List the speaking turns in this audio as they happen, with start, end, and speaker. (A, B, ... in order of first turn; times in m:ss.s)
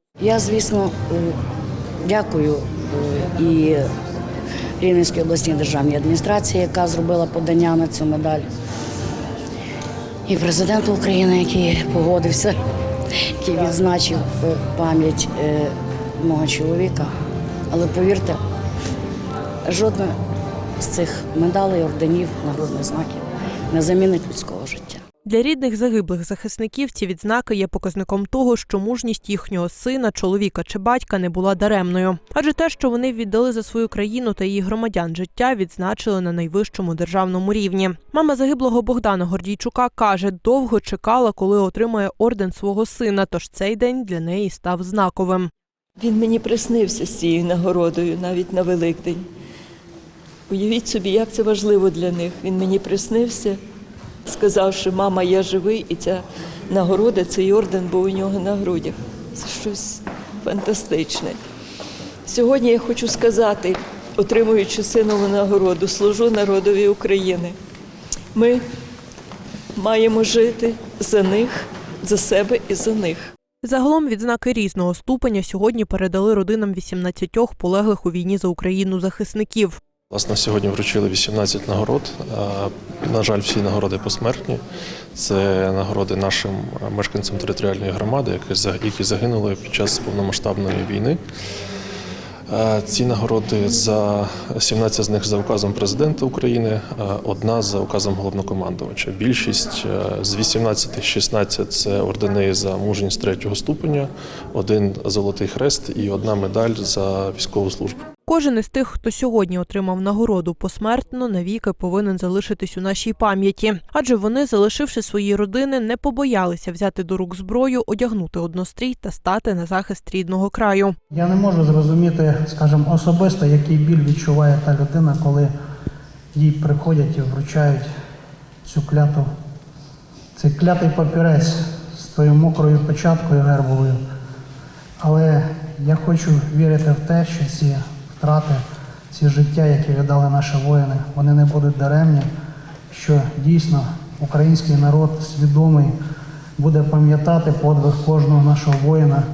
0:00.2-0:01.4 A
0:02.0-0:03.9 A
0:04.8-0:08.5 A
0:10.3-0:12.6 A
0:13.1-0:17.1 A
0:17.7-0:18.4 A
0:19.7-0:20.2 A
0:20.8-0:25.0 A
0:25.2-0:45.5 B
0:46.0-0:49.3 C
0:50.5-0:53.6 C
0:54.3-1:01.4 C
1:02.3-1:07.6 C
1:08.4-1:08.6 C
1:09.8-1:13.3 C
1:13.6-1:19.8 B
1:20.1-1:24.6 D
1:25.2-1:31.2 D
1:32.5-1:48.0 D
1:48.3-2:01.0 B
2:01.1-2:05.5 E
2:06.3-2:07.9 E
2:08.6-2:09.3 E
2:10.4-2:14.0 E
2:15.0-2:22.3 E
2:22.9-2:26.0 E
2:26.6-2:29.2 E